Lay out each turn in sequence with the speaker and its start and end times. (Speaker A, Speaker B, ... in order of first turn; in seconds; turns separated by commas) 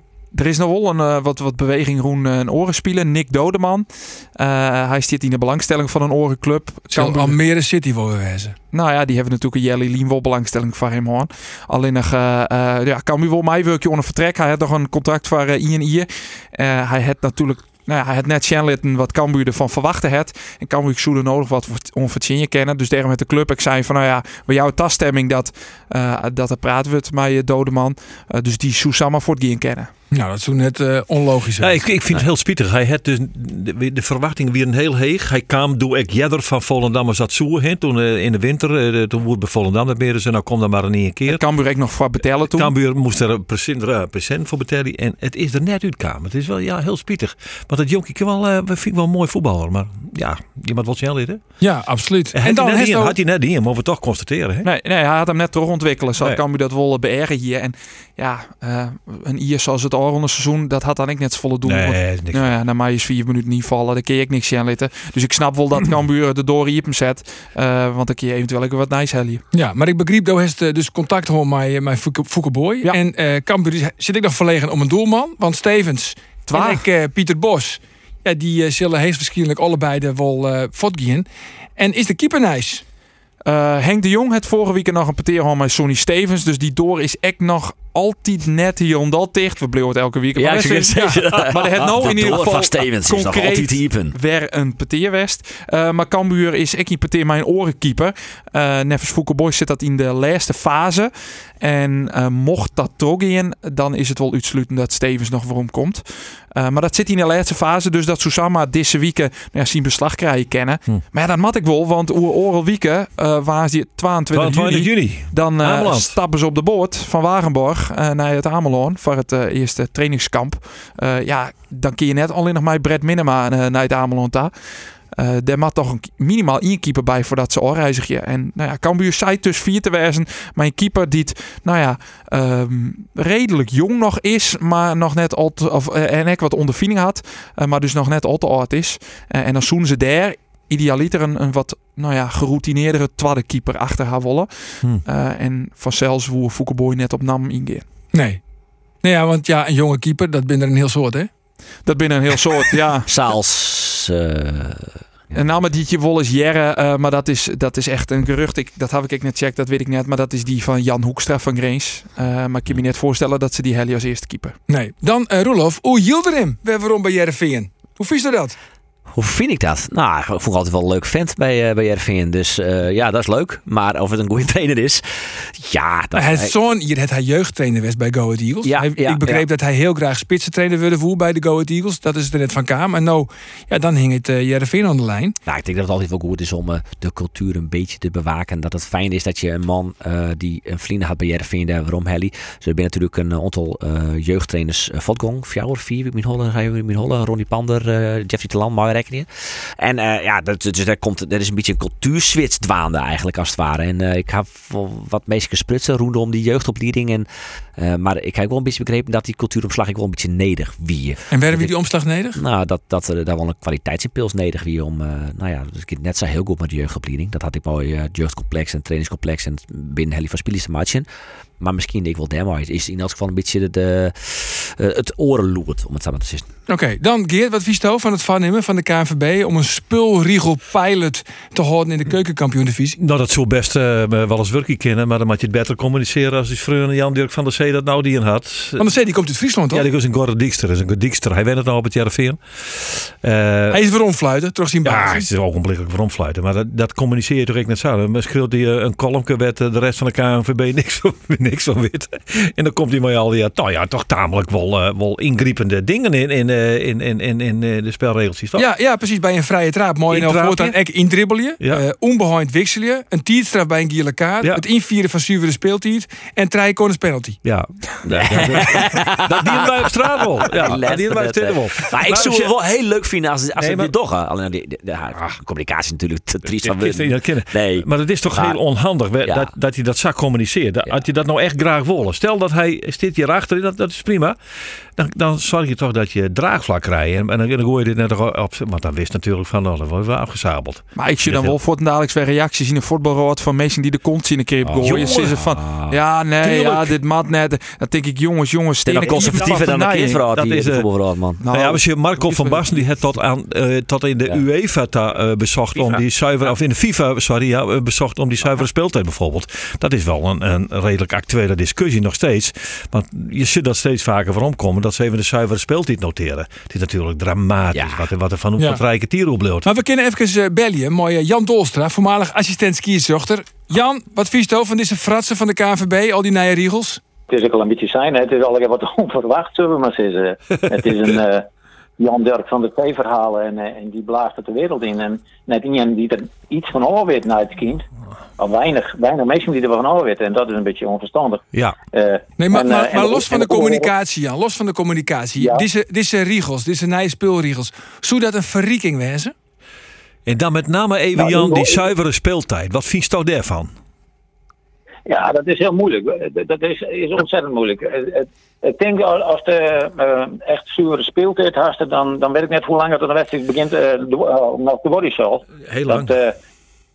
Speaker A: 0.3-7.4, Speaker B: 6.9-8.5, Speaker A: 8.7-29.9, Speaker B: 30.1-31.8, Speaker C: 31.6-41.4, Speaker A: 41.3-42.7, Speaker C: 42.5-51.5, Speaker B: 51.6-53.1, Speaker C: 52.3-54.6, Speaker A: 54.6-69.4, Speaker C: 61.6-62.5, Speaker B: 69.5-81.2, Speaker A: 76.5-76.8, Speaker B: 81.8-82.8, Speaker A: 83.4-124.5, Speaker D: 90.3-94.1, Speaker C: 114.3-116.2, Speaker A: 125.1-147.8, Speaker B: 148.1-148.4, Speaker B: 149.0-151.3, Speaker A: 151.8-153.1, Speaker D: 153.1-155.3, Speaker A: 155.3-164.5, Speaker B: 164.7-168.6, Speaker D: 169.1-176.5, Speaker B: 176.1-185.3, Speaker D: 178.6-179.4, Speaker D: 185.5-211.7, Speaker B: 211.3-212.4, Speaker D: 212.3-221.1, Speaker D: 221.6-226.5, Speaker B: 226.7-233.0, Speaker C: 233.0-238.9, Speaker B: 238.8-239.8, Speaker C: 239.7-243.8, Speaker B: 243.7-245.3, Speaker C: 244.8-258.7, Speaker B: 258.6-267.4, Speaker C: 260.1-260.8, Speaker C: 267.4-272.5, Speaker D: 268.0-278.6, Speaker C: 273.6-273.9, Speaker C: 276.6-284.4, Speaker D: 279.2-279.5, Speaker C: 284.9-291.5, Speaker A: 290.9-300.2, Speaker C: 294.6-295.3, Speaker D: 294.8-296.7, Speaker D: 298.8-301.4, Speaker C: 299.0-299.6, Speaker C: 300.3-300.9, Speaker A: 301.4-302.7, Speaker C: 301.5-319.7, Speaker D: 305.7-306.0, Speaker D: 317.7-318.1, Speaker B: 319.6-327.0, Speaker E: 327.3-331.5, Speaker E: 332.0-337.8, Speaker E: 338.4-343.9, Speaker B: 342.4-349.3, Speaker E: 345.4-345.6, Speaker C: 350.2-353.7, Speaker E: 351.1-351.8, Speaker E: 355.1-366.4, Speaker C: 365.6-366.1